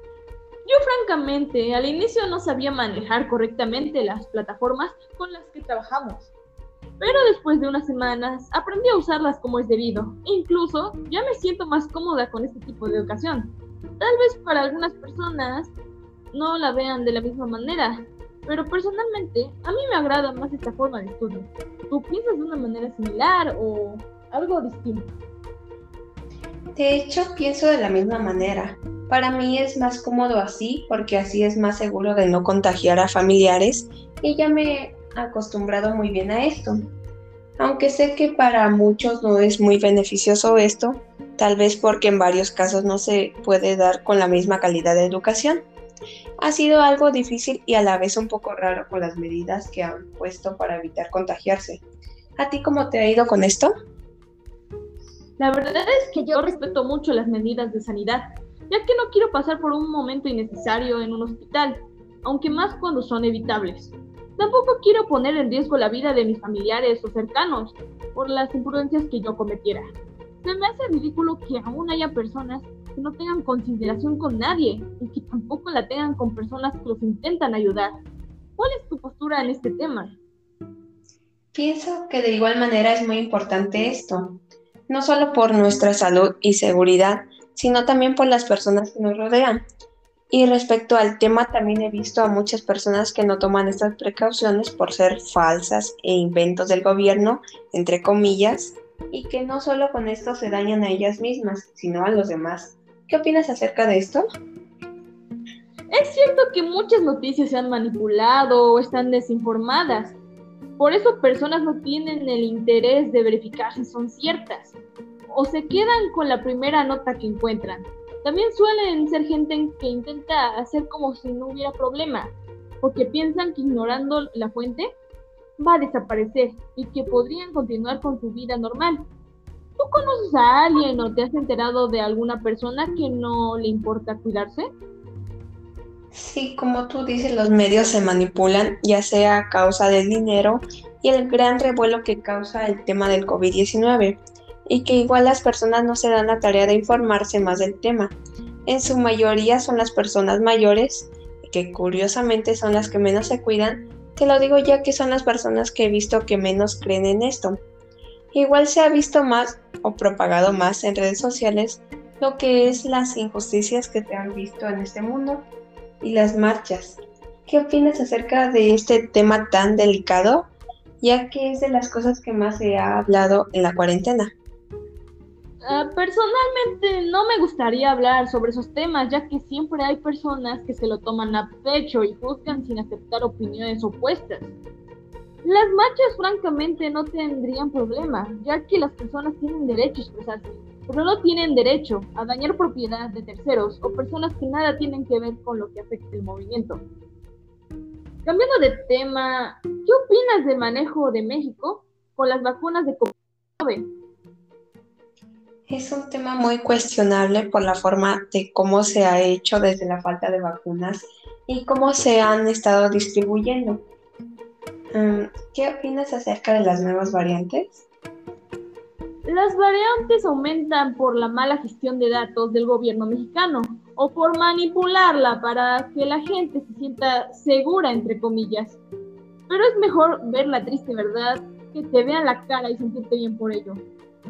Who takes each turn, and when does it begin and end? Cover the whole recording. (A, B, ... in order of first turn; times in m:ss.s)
0:00.6-0:06.3 A
0:07.0-0:15.7 A
0:16.3-0:25.1 A
0:26.8-0:36.8 B
0:37.6-0:45.6 B
0:46.4-0:51.8 B
0:52.4-0:53.7 B
0:55.4-1:17.9 A
1:18.6-1:20.2 A
1:21.5-1:29.6 B
1:30.3-1:44.2 B
1:45.9-1:50.2 A
1:50.8-1:54.8 A
1:55.3-2:05.0 A
2:05.6-2:09.1 A
2:09.8-2:14.7 A
2:16.1-2:37.6 B
2:38.3-2:45.5 B
2:46.0-2:54.3 B
2:55.6-3:04.6 A
3:05.4-3:16.8 A
3:18.2-3:23.9 A
3:25.7-3:33.8 B
3:34.9-3:37.9 B
3:39.2-3:48.8 A
3:49.5-3:53.8 A